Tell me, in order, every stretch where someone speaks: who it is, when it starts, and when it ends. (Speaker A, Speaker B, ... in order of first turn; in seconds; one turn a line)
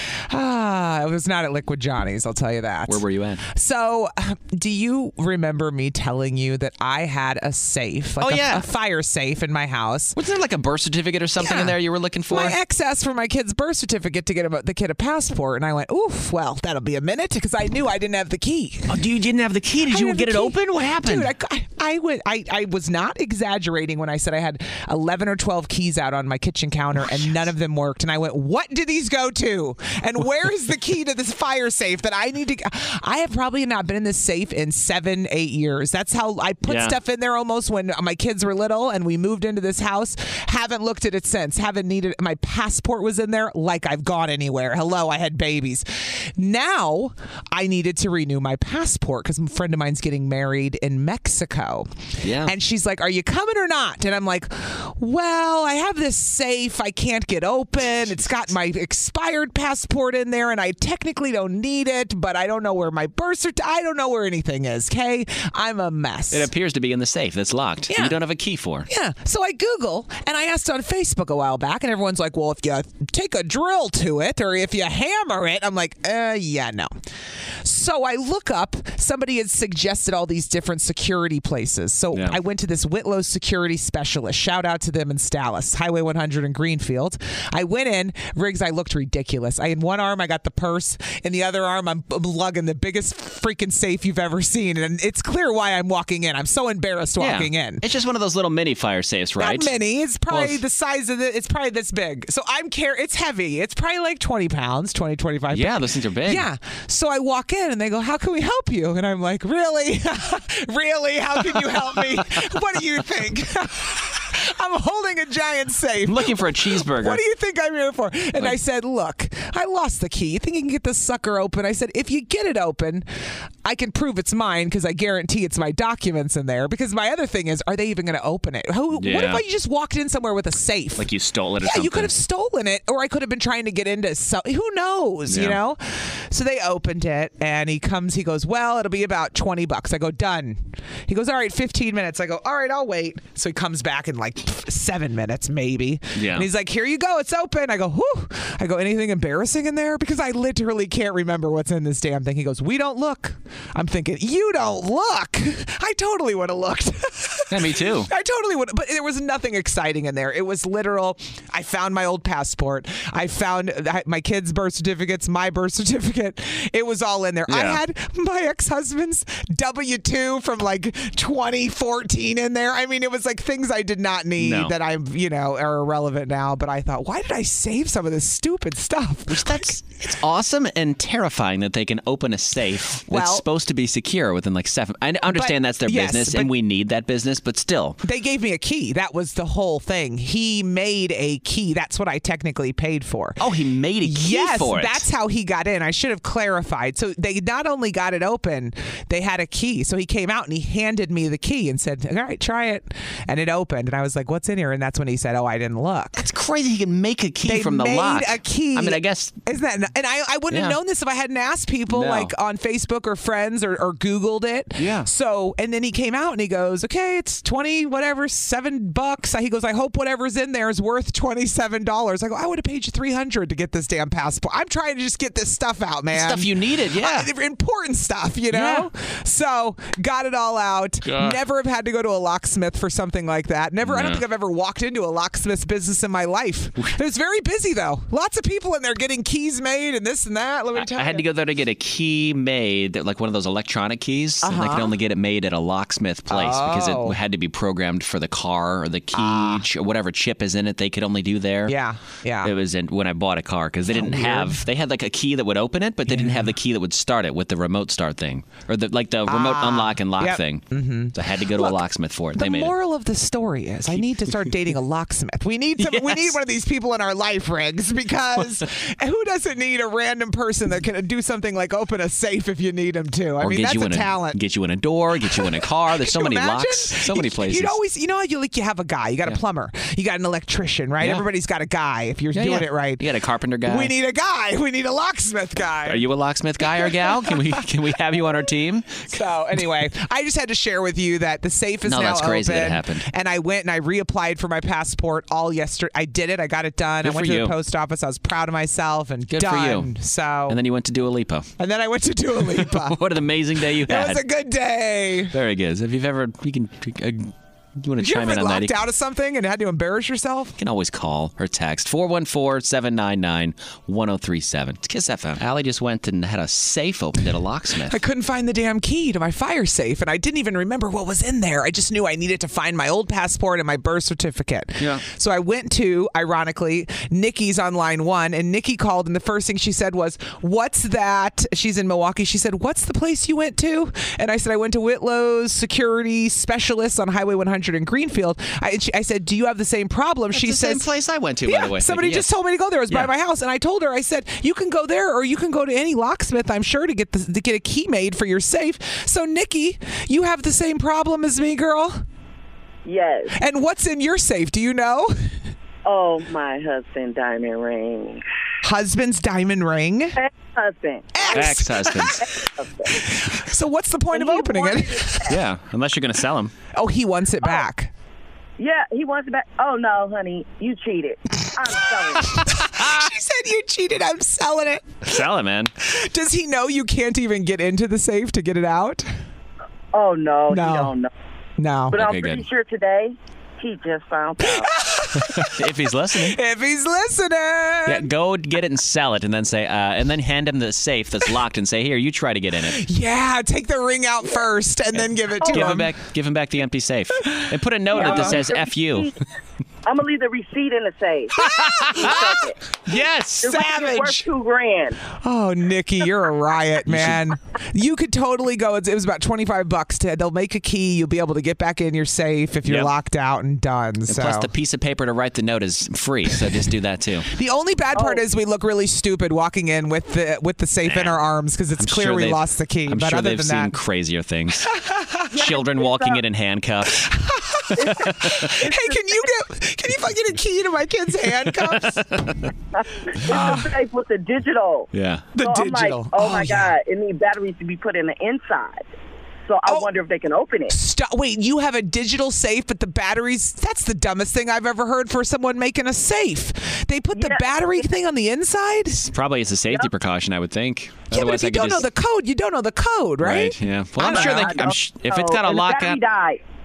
Speaker A: 0.3-10.2
Speaker B: 2.9-3.4
Speaker B: 8.2-8.7
Speaker B: 10.2-12.6
Speaker A: 11.4-11.8
Speaker A: 12.3-18.9
Speaker B: 18.9-21.3
Speaker A: 19.9-66.5
Speaker B: 36.7-37.0
Speaker B: 52.2-52.5
Speaker B: 66.3-68.9
Speaker A: 67.9-68.2
Speaker A: 68.9-76.9
Speaker A: 77.6-97.8
Speaker B: 82.1-82.4
Speaker B: 97.2-99.7
Speaker A: 99.4-123.1
Speaker B: 100.3-100.6
Speaker B: 105.5-106.5
Speaker B: 111.8-112.4
Speaker B: 116.0-117.2
Speaker A: 123.6-131.1
Speaker B: 128.9-129.4
Speaker B: 131.0-132.1
Speaker A: 131.6-179.8
Speaker B: 135.3-135.6
Speaker B: 146.2-146.5
Speaker B: 157.5-158.1
Speaker B: 167.5-167.8
Speaker B: 174.4-174.7
Speaker B: 179.3-188.0
Speaker A: 183.1-183.4
Speaker A: 185.3-186.5
Speaker A: 188.0-193.4
Speaker B: 193.4-195.0
Speaker A: 194.0-206.2
Speaker B: 206.2-209.4
Speaker A: 207.4-241.2
Speaker B: 210.5-210.8
Speaker B: 211.9-212.3
Speaker B: 214.8-215.1
Speaker B: 226.1-227.3
Speaker B: 228.5-228.9
Speaker B: 231.0-231.4
Speaker B: 233.8-234.2
Speaker B: 240.8-251.8
Speaker A: 244.4-244.9
Speaker A: 246.3-247.2
Speaker A: 249.1-249.6
Speaker A: 251.7-252.5
Speaker B: 252.4-262.7
Speaker A: 253.9-254.6
Speaker A: 256.1-256.5
Speaker A: 259.3-261.8
Speaker A: 262.4-274.4
Speaker B: 265.8-266.4
Speaker B: 268.4-268.6
Speaker B: 273.4-277.8
Speaker A: 275.2-283.1
Speaker B: 282.3-283.9
Speaker A: 283.7-286.0
Speaker B: 285.9-289.1
Speaker A: 286.6-287.3
Speaker A: 289.1-300.6
Speaker B: 291.9-293.1
Speaker B: 297.0-297.6
Speaker B: 299.3-299.9
Speaker B: 300.5-301.5
Speaker A: 301.6-305.3
Speaker B: 302.6-304.2
Speaker B: 305.3-308.8
Speaker A: 308.0-310.6
Speaker B: 310.6-318.0
Speaker A: 317.9-340.9
Speaker B: 340.3-342.3
Speaker A: 341.4-352.0
Speaker C: 352.9-353.4
Speaker A: 353.4-355.1
Speaker C: 355.9-358.2
Speaker A: 358.6-360.2
Speaker C: 360.2-363.1
Speaker A: 361.1-362.4
Speaker B: 361.3-362.2
Speaker A: 362.9-365.4
Speaker C: 364.1-365.4
Speaker B: 365.3-366.5
Speaker A: 366.7-367.9
Speaker C: 368.6-372.6
Speaker A: 372.3-375.2
Speaker B: 372.7-373.1
Speaker B: 375.1-375.7
Speaker A: 375.8-379.1
Speaker C: 379.9-381.1
Speaker A: 380.5-380.9
Speaker A: 381.6-382.0
Speaker C: 381.9-384.7
Speaker B: 381.9-382.5
Speaker A: 384.4-388.1
Speaker B: 385.1-386.4
Speaker B: 387.9-392.8
Speaker A: 392.8-395.9
Speaker B: 395.0-399.1
Speaker C: 395.4-395.8
Speaker C: 397.9-399.1
Speaker A: 397.9-398.4
Speaker C: 399.9-402.6
Speaker A: 401.4-402.4
Speaker B: 401.5-402.2
Speaker B: 402.9-403.6
Speaker A: 403.4-404.3
Speaker C: 403.4-405.0
Speaker A: 405.2-414.5
Speaker B: 406.9-407.3
Speaker B: 412.7-412.9
Speaker B: 414.1-417.3
Speaker A: 417.3-423.8
Speaker C: 417.9-418.2
Speaker B: 420.9-421.2
Speaker B: 421.8-424.7
Speaker A: 424.7-425.3
Speaker B: 425.3-427.1
Speaker C: 425.3-426.2
Speaker A: 427.0-432.1
Speaker C: 427.8-429.4
Speaker B: 427.8-428.6
Speaker B: 431.4-432.5
Speaker C: 432.7-438.9
Speaker A: 433.3-433.7
Speaker B: 434.9-435.3
Speaker A: 435.4-436.8
Speaker C: 439.5-440.8
Speaker A: 439.7-439.9
Speaker A: 440.7-449.1
Speaker C: 447.1-447.9
Speaker B: 449.1-451.9
Speaker A: 451.1-454.7
Speaker B: 453.2-456.0
Speaker C: 454.0-456.4